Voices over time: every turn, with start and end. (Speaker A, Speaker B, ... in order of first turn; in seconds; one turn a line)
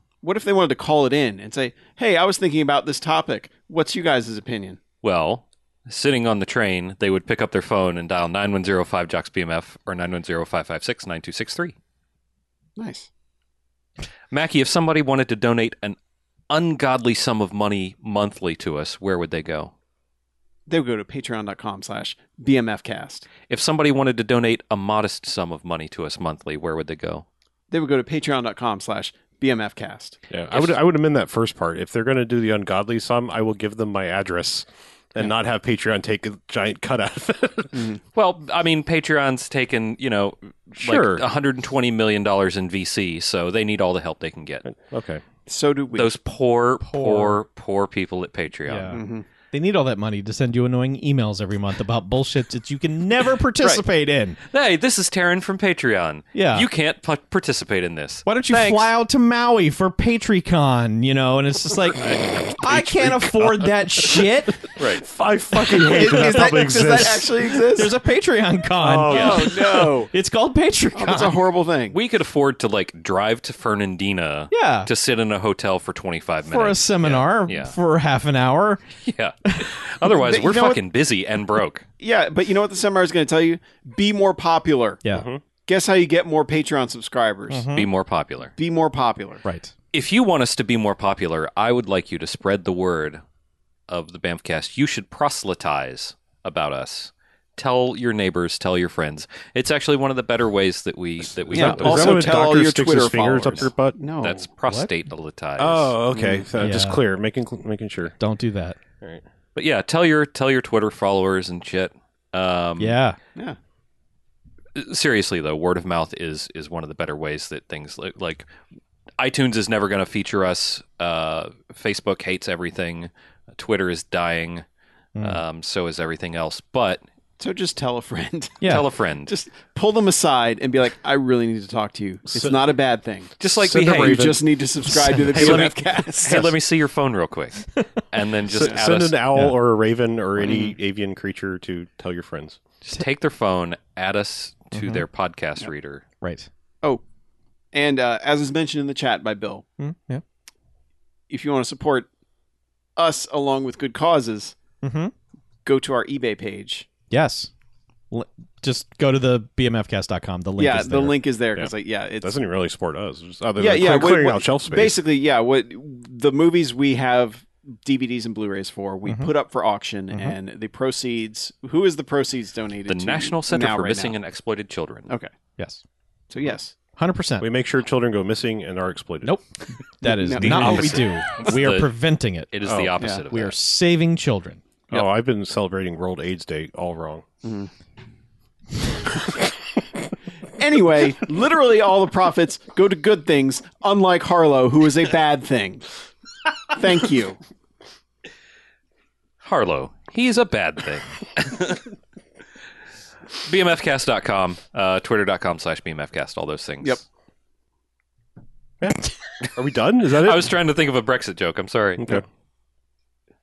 Speaker A: 0.2-4.8
Speaker B: 5.0-11.8
Speaker A: 12.8-13.1
Speaker B: 14.3-16.0
Speaker B: 16.5-19.7
Speaker A: 20.7-23.3
Speaker B: 23.5-27.2
Speaker A: 27.7-30.2
Speaker C: 30.3-37.9
Speaker B: 30.5-30.8
Speaker A: 37.7-38.0
Speaker B: 38.1-44.6
Speaker C: 40.8-41.2
Speaker C: 44.6-45.2
Speaker A: 45.5-46.1
Speaker B: 46.0-49.0
Speaker D: 46.8-47.4
Speaker D: 48.7-54.4
Speaker A: 48.9-49.3
Speaker B: 54.4-58.9
Speaker D: 56.3-56.7
Speaker D: 58.3-64.7
Speaker C: 62.1-67.6
Speaker B: 64.8-65.0
Speaker D: 65.7-71.4
Speaker A: 65.7-67.9
Speaker C: 68.8-69.9
Speaker A: 69.1-70.1
Speaker A: 70.9-72.0
Speaker B: 71.9-77.8
Speaker D: 74.5-74.9
Speaker D: 76.5-78.8
Speaker B: 79.0-81.9
Speaker D: 79.5-79.9
Speaker A: 80.1-80.8
Speaker A: 82.0-85.0
Speaker C: 85.1-85.4
Speaker A: 85.7-87.7
Speaker D: 87.5-87.9
Speaker B: 87.7-88.5
Speaker A: 88.6-89.4
Speaker D: 89.4-89.7
Speaker B: 89.9-93.2
Speaker B: 93.9-102.4
Speaker C: 101.5-104.0
Speaker A: 101.5-104.4
Speaker B: 104.2-106.0
Speaker C: 105.6-108.2
Speaker A: 106.1-106.5
Speaker D: 106.6-107.0
Speaker D: 108.2-108.8
Speaker B: 109.5-113.0
Speaker D: 112.8-113.2
Speaker B: 114.8-118.5
Speaker B: 119.2-124.6
Speaker D: 125.2-125.4
Speaker B: 125.2-127.0
Speaker A: 127.4-136.5
Speaker D: 128.6-128.9
Speaker B: 128.6-129.3
Speaker C: 132.3-132.6
Speaker B: 133.4-134.3
Speaker C: 133.6-134.4
Speaker C: 135.3-135.7
Speaker B: 135.3-139.2
Speaker C: 138.5-142.6
Speaker B: 142.8-146.1
Speaker D: 144.7-145.1
Speaker D: 146.2-146.5
Speaker A: 147.7-149.7
Speaker D: 149.8-150.2
Speaker A: 151.3-152.1
Speaker A: 153.0-154.6
Speaker D: 154.8-155.1
Speaker A: 155.7-156.9
Speaker D: 157.1-157.5
Speaker D: 158.1-161.2
Speaker A: 160.6-162.3
Speaker C: 161.6-165.0
Speaker A: 163.6-174.2
Speaker D: 169.1-169.3
Speaker D: 170.1-170.4
Speaker B: 172.9-175.1
Speaker D: 175.6-175.8
Speaker A: 176.3-176.7
Speaker D: 177.0-177.5
Speaker C: 177.4-179.4
Speaker D: 180.0-182.5
Speaker A: 180.0-181.1
Speaker B: 180.4-181.9
Speaker C: 180.5-180.9
Speaker B: 182.5-183.6
Speaker C: 182.7-182.9
Speaker D: 183.3-184.6
Speaker C: 184.9-187.2
Speaker A: 187.4-187.7
Speaker A: 190.6-195.9
Speaker A: 196.7-197.4
Speaker B: 199.4-201.9
Speaker B: 203.4-207.0
Speaker C: 208.8-210.5
Speaker B: 210.2-212.2
Speaker C: 212.0-212.2